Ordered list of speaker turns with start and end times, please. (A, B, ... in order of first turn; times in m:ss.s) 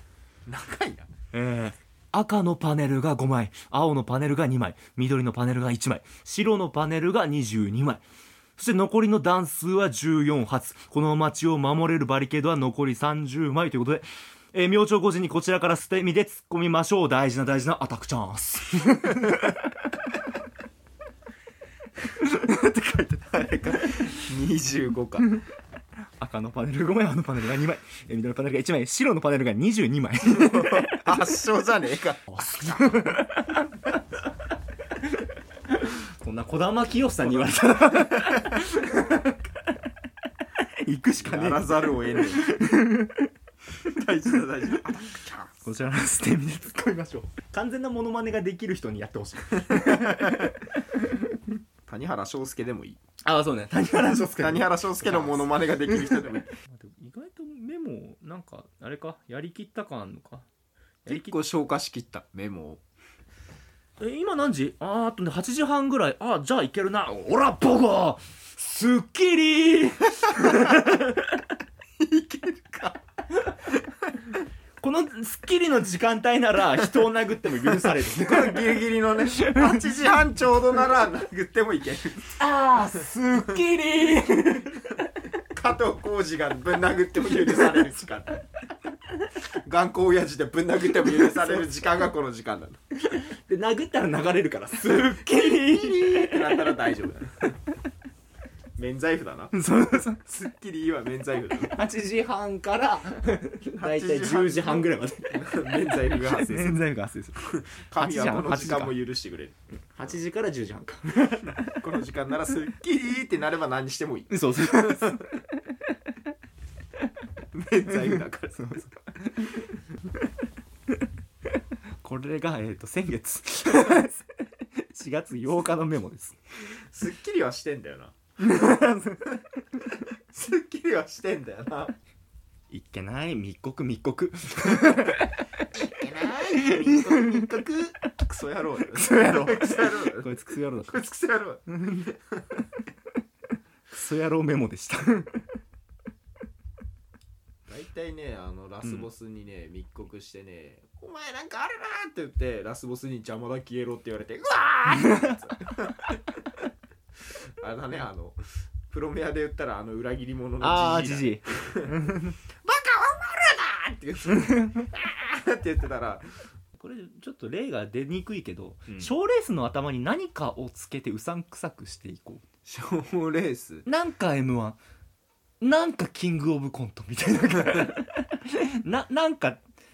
0:00.5-0:01.1 A
0:01.3-0:08.0 B
0:08.6-0:19.9 B
0:22.0-0:24.0 B
0:23.4-0:25.4 A
0:26.2-0:31.2 B
0:30.3-0:32.8 A
0:32.3-0:34.0 B
0:35.7-0:39.4 B
0:38.0-0:38.3 A
0:40.6-0:43.3 B
0:41.2-0:42.5 A
0:43.9-0:45.5 A
0:45.6-0:51.3 B
0:49.8-0:50.3 A
0:51.9-0:53.0 A
0:53.2-1:00.5 B
0:54.3-0:56.6 A
1:01.1-1:01.4 B
1:01.1-1:02.8 A
1:04.0-1:11.5 B
1:12.0-1:13.0 A
1:14.8-1:19.9 B
1:17.9-1:22.4 A
1:22.4-1:25.1 B
1:25.4-1:28.4 A
1:29.6-1:32.8 A
1:31.1-1:31.6 B
1:33.0-1:36.8 B
1:35.2-1:37.6 A
1:38.8-1:39.6 A
1:39.5-1:40.2 B
1:40.2-1:41.8 A
1:41.7-1:49.0 B
1:43.8-1:46.8 A
1:47.4-1:50.2 A
1:50.0-1:51.8 B
1:51.4-1:55.2 A
1:54.3-1:55.6 B
1:57.5-1:58.9 A
1:58.0-1:59.8 B
2:02.0-2:06.4 B
2:06.7-2:08.2 A
2:08.4-2:09.8 B
2:10.3-2:12.0 A
2:12.7-2:17.8 B
2:15.8-2:22.6 A
2:18.9-2:21.0 B
2:23.9-2:25.5 B
2:27.7-2:36.2 A
2:34.9-2:35.3 B
2:37.6-2:42.0 A
2:40.6-2:42.4 B
2:42.5-2:46.4 A
2:44.5-2:44.8 B
2:46.8-2:52.4 B
2:52.6-2:53.9 A
2:53.9-2:54.8 B
2:55.6-2:59.6 B